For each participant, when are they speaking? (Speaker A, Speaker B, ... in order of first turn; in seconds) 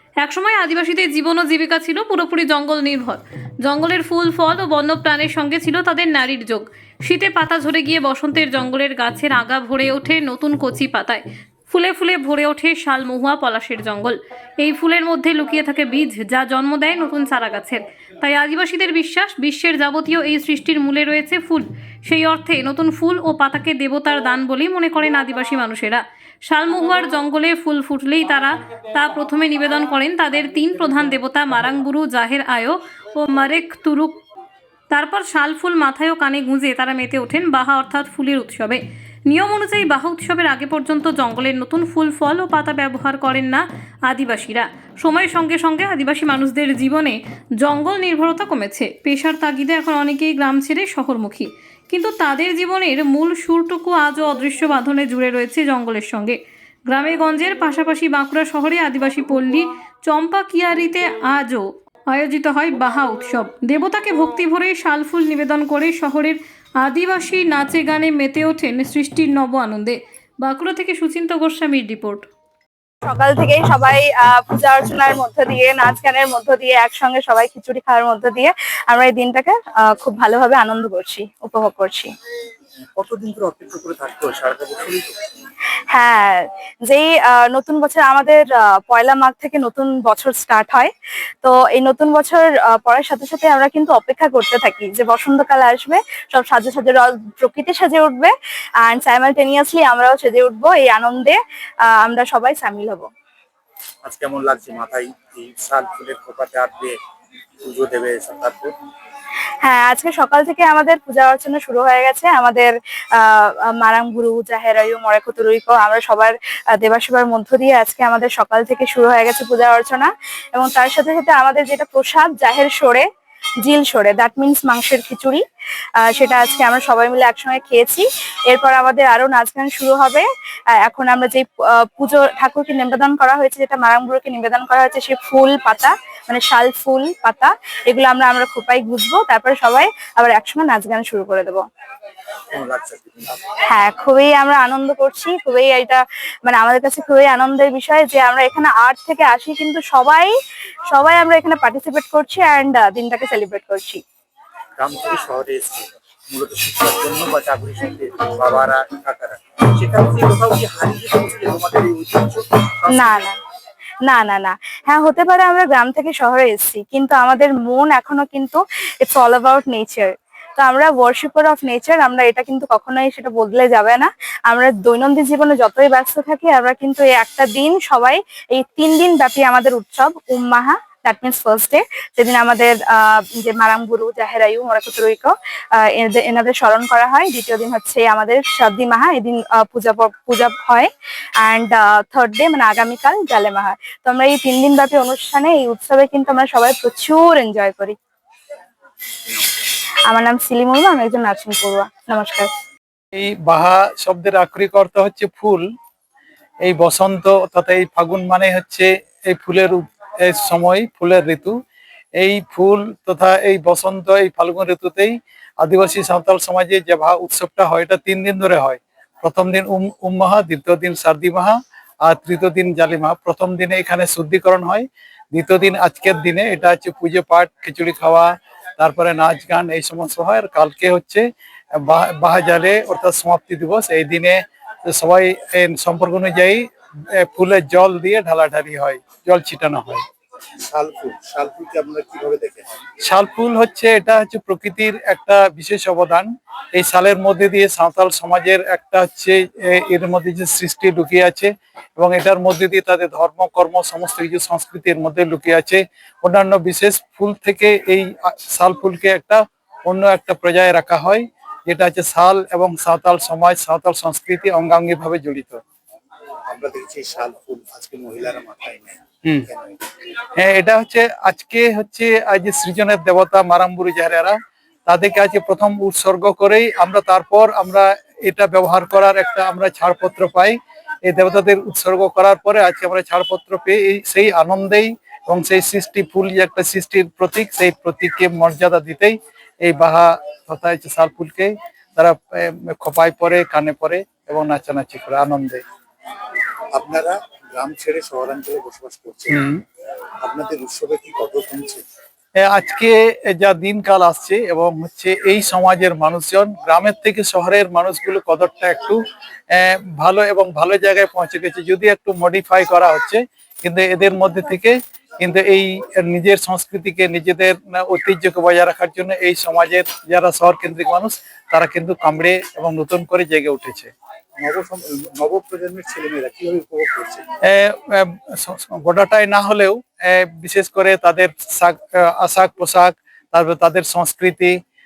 Speaker A: 0.2-34.2, 34.9-72.3
Speaker B: 73.0-82.1, 85.9-90.9, 91.4-101.4, 101.9-103.0, 109.6-123.0, 123.6-125.4, 126.0-141.6, 143.7-150.3, 150.9-154.0, 162.9-163.3, 164.0-190.9, 191.4-197.9, 200.1-202.5
Speaker C: 83.0-85.1, 104.0-107.0, 107.6-108.7, 142.5-143.4, 154.8-163.2, 240.7-242.8, 266.5-269.8, 296.8-299.4, 300.2-301.8, 324.4-327.2
Speaker D: 203.1-205.6, 206.6-211.6, 212.2-240.0, 243.0-265.6, 270.3-274.4, 274.9-295.6, 299.3-299.6, 302.5-309.0, 309.5-323.9, 327.4-334.6